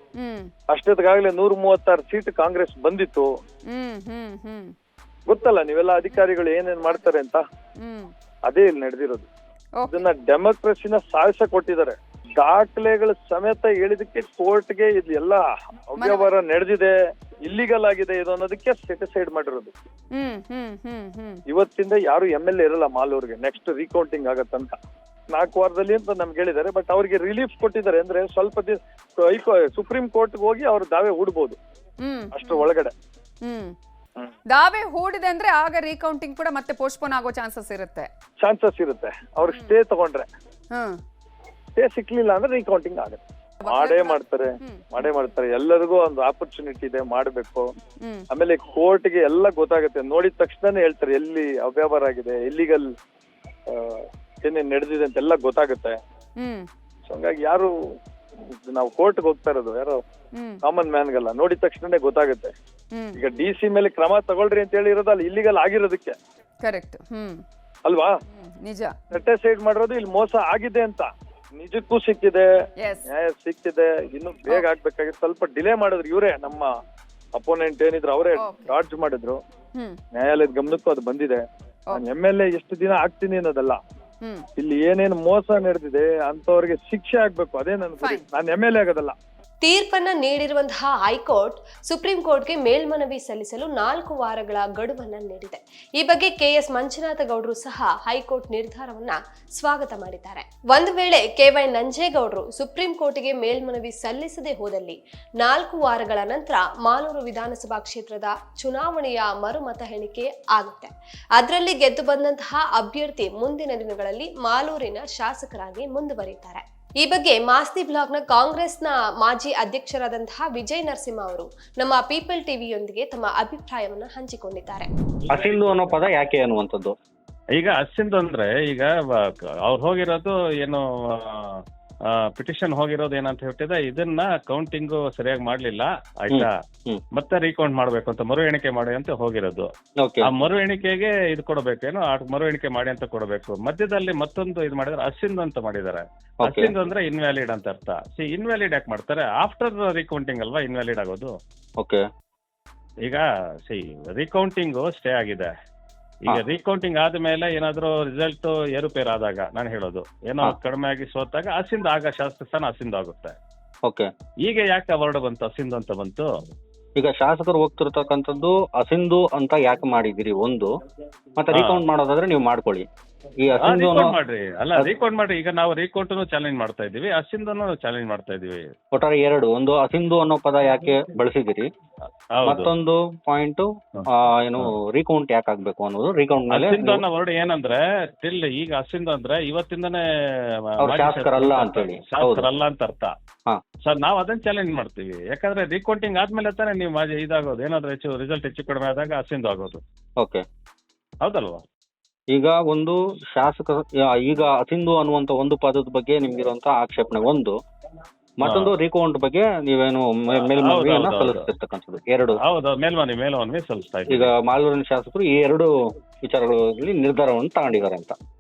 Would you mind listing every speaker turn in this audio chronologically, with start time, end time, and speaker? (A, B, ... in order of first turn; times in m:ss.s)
0:00.2-0:00.5 A
0:00.7-0:03.3 B
0:03.7-0:04.8 A
0:05.3-0:07.4 B
0:07.8-0:08.1 A
0:08.5-0:09.3 B
0:09.8-0:10.1 A
0:09.9-0:16.9 B
0:16.0-0:16.3 A
0:17.4-0:19.7 B
0:20.2-0:21.4 A
0:21.5-0:24.8 B
0:25.3-0:31.6 B
0:32.0-0:32.7 A
0:32.3-0:32.9 B
0:33.4-0:33.8 A
0:34.5-0:38.1 A
0:38.4-0:40.3 B
0:39.5-0:39.8 A
0:40.7-0:41.0 A
0:41.8-0:47.7 B
0:43.6-0:45.0 A
0:48.3-0:52.9 B
0:53.7-0:56.0 B
0:56.4-0:56.7 A
0:57.1-0:57.7 B
0:58.7-1:00.0 B
1:00.6-1:02.5 B
1:02.9-1:03.2 A
1:03.2-1:06.2 B
1:06.6-1:07.4 A
1:07.8-1:08.1 B
1:08.3-1:09.0 A
1:09.1-1:12.5 B
1:12.8-1:13.1 A
1:13.1-1:16.7 B
1:17.4-1:19.4 B
1:18.4-1:18.8 A
1:20.1-1:23.8 B
1:24.6-1:29.2 B
1:29.6-2:04.9 C
2:05.3-2:07.0 D
2:05.3-2:06.0 E
2:07.6-2:11.6 E
2:12.3-2:16.5 E
2:16.3-2:17.0 D
2:17.1-2:19.7 E
2:20.0-2:20.3 D
2:20.2-2:31.3 E
2:26.5-2:26.7 D
2:33.0-2:35.5 E
2:36.2-2:43.4 E
2:44.4-2:46.3 E
2:47.0-2:50.7 D
2:51.4-2:52.9 D
2:51.5-2:51.8 E
2:53.4-2:54.1 D
2:53.6-2:58.7 E
2:58.9-3:01.7 D
3:02.4-3:02.7 E
3:02.4-3:07.0 D
3:06.5-3:10.0 E
3:10.8-3:13.1 E
3:10.8-3:12.5 D
3:13.8-3:19.8 E
3:21.2-3:21.7 E
3:22.3-3:27.6 D
3:28.4-3:32.4 D
3:28.5-3:28.7 E
3:30.4-3:31.5 E
3:32.4-3:34.3 E
3:34.1-3:35.7 D
3:36.2-3:38.2 D